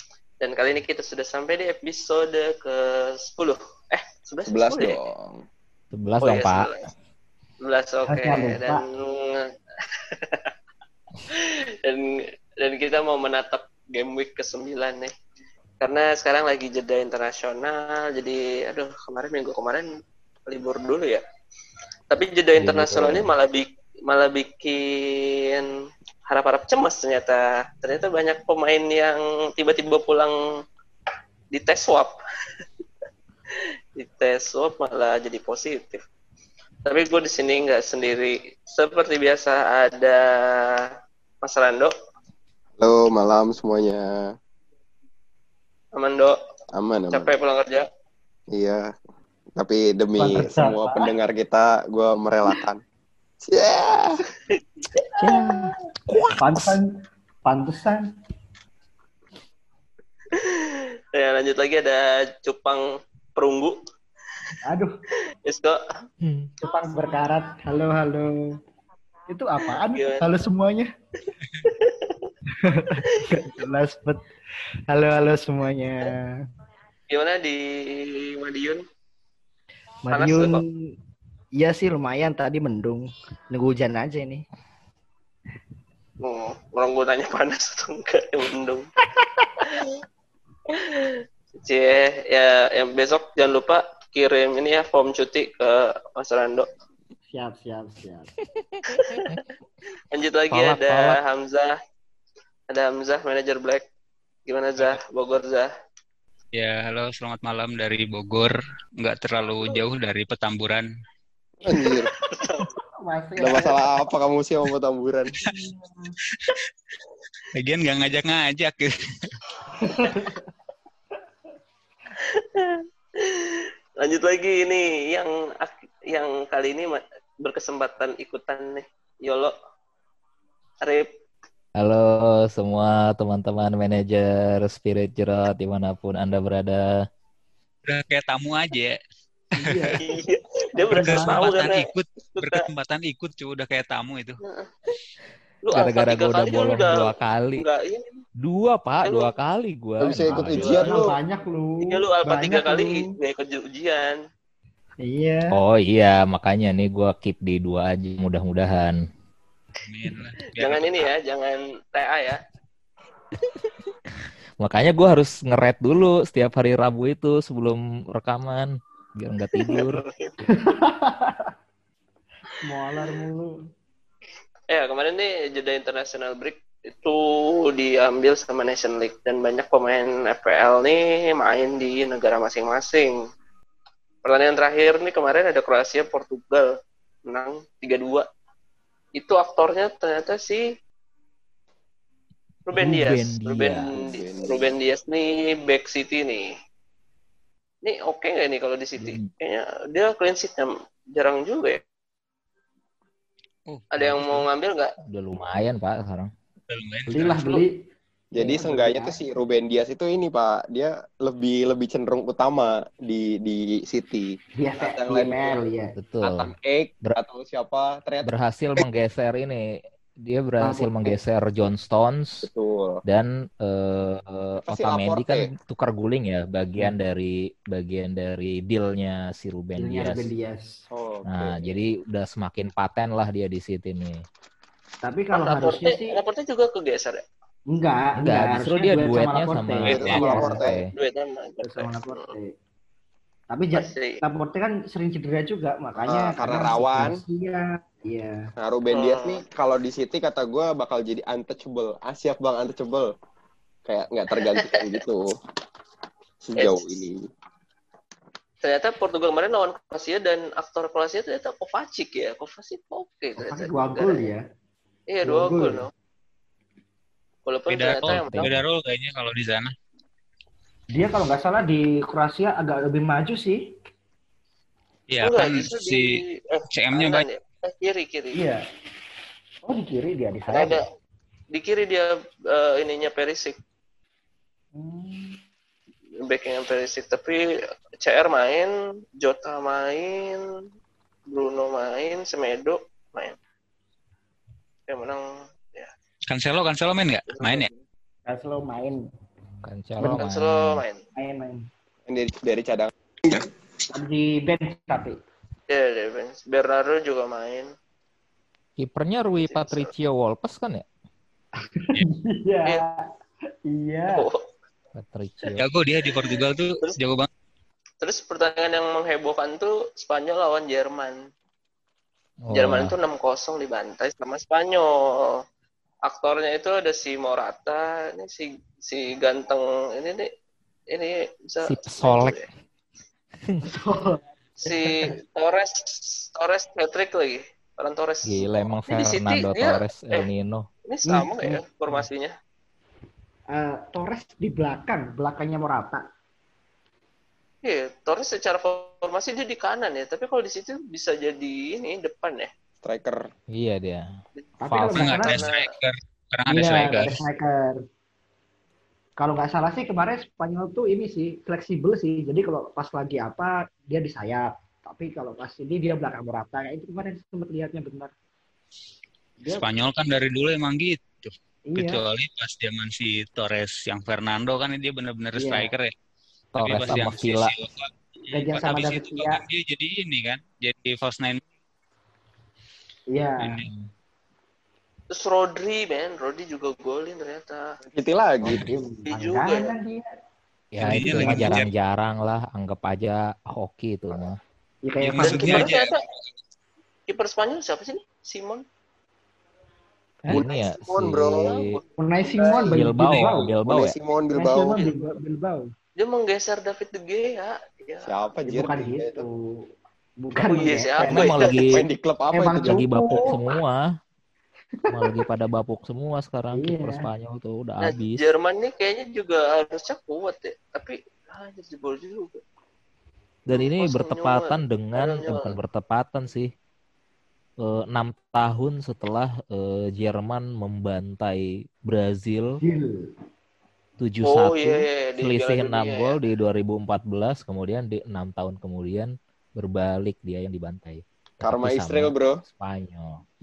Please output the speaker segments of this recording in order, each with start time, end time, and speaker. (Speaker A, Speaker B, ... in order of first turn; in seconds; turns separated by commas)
Speaker A: 0.4-5.0, Speaker B: 4.5-5.4, Speaker C: 5.9-6.7, Speaker A: 6.2-6.9, Speaker A: 7.6-9.5, Speaker D: 8.1-8.8, Speaker A: 10.2-10.5, Speaker A: 11.3-15.1, Speaker A: 15.8-19.9, Speaker A: 20.5-21.2, Speaker A: 22.1-25.7, Speaker C: 22.6-23.3, Speaker A: 26.3-30.4, Speaker A: 31.5-32.2, Speaker A: 34.0-36.0, Speaker A: 36.9-40.9, Speaker A: 41.4-41.9, Speaker B: 42.8-44.3, Speaker A: 46.0-46.4, Speaker B: 46.7-47.3, Speaker A: 47.1-47.9, Speaker B: 48.5-48.9, Speaker B: 49.6-52.8, Speaker D: 50.2-51.1, Speaker B: 53.4-54.2, Speaker A: 54.5-55.5, Speaker D: 55.2-55.8, Speaker D: 56.4-56.9, Speaker D: 57.5-58.1, Speaker A: 60.3-63.8, Speaker D: 64.7-64.9, Speaker A: 65.5-65.8, Speaker C: 66.2-66.5, Speaker D: 66.6-68.6, Speaker D: 69.3-70.9, Speaker A: 69.7-70.2, Speaker A: 71.7-72.3, Speaker D: 72.5-74.3, Speaker A: 73.1-73.5, Speaker D: 74.9-76.4, Speaker A: 77.1-78.8, Speaker D: 80.0-80.9, Speaker A: 80.1-80.6, Speaker D: 81.6-84.5, Speaker A: 86.2-88.9, Speaker D: 89.2-89.7, Speaker A: 90.7-96.7, Speaker D: 97.3-98.3, Speaker C: 98.5-99.4, Speaker A: 98.9-99.4, Speaker A: 100.1-101.8, Speaker C: 100.5-101.2, Speaker A: 102.7-103.9, Speaker A: 104.5-105.7, Speaker E: 106.5-110.9, Speaker B: 111.6-112.1, Speaker A: 111.7-112.7, Speaker D: 112.6-114.0, Speaker B: 113.4-115.4, Speaker D: 115.8-116.1, Speaker E: 117.5-119.3, Speaker D: 119.8-120.5, Speaker A: 122.2-129.5, Speaker A: 130.8-131.1, Speaker C: 131.8-136.9, Speaker E: 137.9-139.0, Speaker D: 139.6-140.1, Speaker E: 139.6-140.0, Speaker A: 140.0-142.6, Speaker D: 140.8-141.4, Speaker E: 140.9-144.4, Speaker A: 144.4-144.9, Speaker A: 145.7-148.2, Speaker C: 145.7-147.7, Speaker C: 148.4-150.8, Speaker A: 149.0-149.3, Speaker B: 150.0-151.2, Speaker D: 150.3-153.0, Speaker A: 150.5-151.1, Speaker A: 151.8-154.2, Speaker D: 155.0-155.6, Speaker C: 155.5-159.0, Speaker E: 159.8-161.1, Speaker A: 160.6-162.4, Speaker C: 164.6-170.0, Speaker A: 169.5-170.4, Speaker D: 170.5-171.5, Speaker D: 172.6-173.6, Speaker A: 174.7-183.2, Speaker A: 184.2-186.7, Speaker A: 187.3-188.3, Speaker A: 189.2-190.6, Speaker A: 192.7-196.5, Speaker C: 192.8-193.9, Speaker B: 193.9-194.8, Speaker A: 197.8-201.8, Speaker E: 203.7-204.4, Speaker A: 203.9-204.9, Speaker C: 205.1-206.3, Speaker E: 206.7-207.5, Speaker D: 207.1-207.7, Speaker B: 208.3-215.6, Speaker D: 208.4-209.2, Speaker D: 214.6-216.0, Speaker C: 216.0-216.5, Speaker B: 216.2-218.8, Speaker C: 218.2-222.5, Speaker D: 220.6-221.2, Speaker B: 222.4-223.0, Speaker C: 223.1-230.3, Speaker B: 224.7-225.5, Speaker D: 229.8-230.8, Speaker B: 230.9-231.7, Speaker C: 231.3-234.2, Speaker D: 235.0-236.2, Speaker A: 235.3-237.2, Speaker D: 237.7-240.9, Speaker C: 238.2-240.9, Speaker B: 239.9-240.8, Speaker A: 240.9-242.3, Speaker D: 241.6-242.5, Speaker D: 243.5-248.5, Speaker A: 243.8-244.2, Speaker B: 246.1-247.2, Speaker B: 248.6-253.1, Speaker A: 248.9-249.4, Speaker B: 253.9-255.3, Speaker A: 254.6-254.9, Speaker B: 256.4-257.2, Speaker A: 256.6-256.9, Speaker A: 258.6-264.3, Speaker D: 263.4-264.4, Speaker A: 265.1-265.9, Speaker D: 265.2-265.9, Speaker A: 267.5-268.5, Speaker E: 267.7-269.7, Speaker C: 268.1-268.6, Speaker D: 270.9-273.7, Speaker E: 275.1-276.1, Speaker A: 275.2-278.4, Speaker E: 276.7-277.3, Speaker D: 278.4-278.6, Speaker D: 279.6-280.8, Speaker A: 280.5-280.8, Speaker A: 281.5-283.6, Speaker D: 284.8-285.4, Speaker A: 286.2-287.4, Speaker A: 288.0-290.5, Speaker A: 291.3-293.4, Speaker A: 294.9-295.9, Speaker E: 296.3-297.7, Speaker A: 297.3-297.8, Speaker D: 298.3-299.1, Speaker C: 299.6-300.8, Speaker D: 300.0-300.3, Speaker A: 300.2-301.1, Speaker D: 301.1-301.7, Speaker B: 302.1-303.5, Speaker D: 303.9-305.2, Speaker A: 305.7-307.7, Speaker C: 308.8-310.9, Speaker A: 309.3-309.9, Speaker D: 311.6-313.0, Speaker D: 313.7-314.3, Speaker A: 314.1-314.4, Speaker C: 315.0-315.6, Speaker E: 315.6-317.3, Speaker A: 316.1-317.0, Speaker A: 318.0-321.2, Speaker C: 322.5-322.9, Speaker A: 322.5-325.4, Speaker A: 326.1-330.3, Speaker A: 330.9-332.5, Speaker C: 331.6-332.4, Speaker D: 333.6-335.1, Speaker A: 334.6-340.3, Speaker C: 338.2-340.7, Speaker A: 340.9-342.3, Speaker D: 341.1-342.0, Speaker D: 343.5-346.0, Speaker A: 347.6-352.5, Speaker B: 352.8-353.2, Speaker C: 353.5-354.1, Speaker D: 354.6-355.4, Speaker C: 354.7-355.1, Speaker E: 354.9-357.2, Speaker A: 355.2-355.7, Speaker D: 356.5-357.8, Speaker D: 359.2-368.1, Speaker E: 369.5-375.9, Speaker D: 371.7-372.0, Speaker D: 375.4-375.7, Speaker C: 376.6-377.5, Speaker E: 376.6-381.4, Speaker D: 378.3-379.4, Speaker D: 383.1-383.7, Speaker E: 383.4-383.7, Speaker A: 385.1-387.8, Speaker B: 387.9-388.7, Speaker D: 388.4-390.0, Speaker A: 389.1-389.8, Speaker C: 390.7-394.4, Speaker D: 390.8-391.6, Speaker E: 390.8-391.7, Speaker D: 394.8-395.7, Speaker E: 395.0-396.3, Speaker A: 395.2-396.0, Speaker A: 397.1-398.6, Speaker B: 400.3-401.6, Speaker C: 400.3-401.8, Speaker A: 401.4-402.7, Speaker D: 402.0-403.5, Speaker C: 402.6-403.9, Speaker B: 403.6-404.8, Speaker D: 404.3-405.7, Speaker A: 406.0-408.2, Speaker B: 408.0-409.2, Speaker D: 408.5-409.4, Speaker D: 410.2-411.5, Speaker A: 410.4-411.6, Speaker C: 411.0-411.9, Speaker B: 411.7-412.8, Speaker D: 412.3-413.5, Speaker C: 412.6-413.9, Speaker D: 414.8-415.2, Speaker C: 414.9-418.3, Speaker D: 416.5-417.1, Speaker A: 417.8-422.4, Speaker C: 423.5-426.5, Speaker A: 423.5-425.6, Speaker C: 427.6-432.6, Speaker D: 432.6-433.1, Speaker C: 434.0-443.2, Speaker A: 434.2-436.2, Speaker B: 441.4-442.4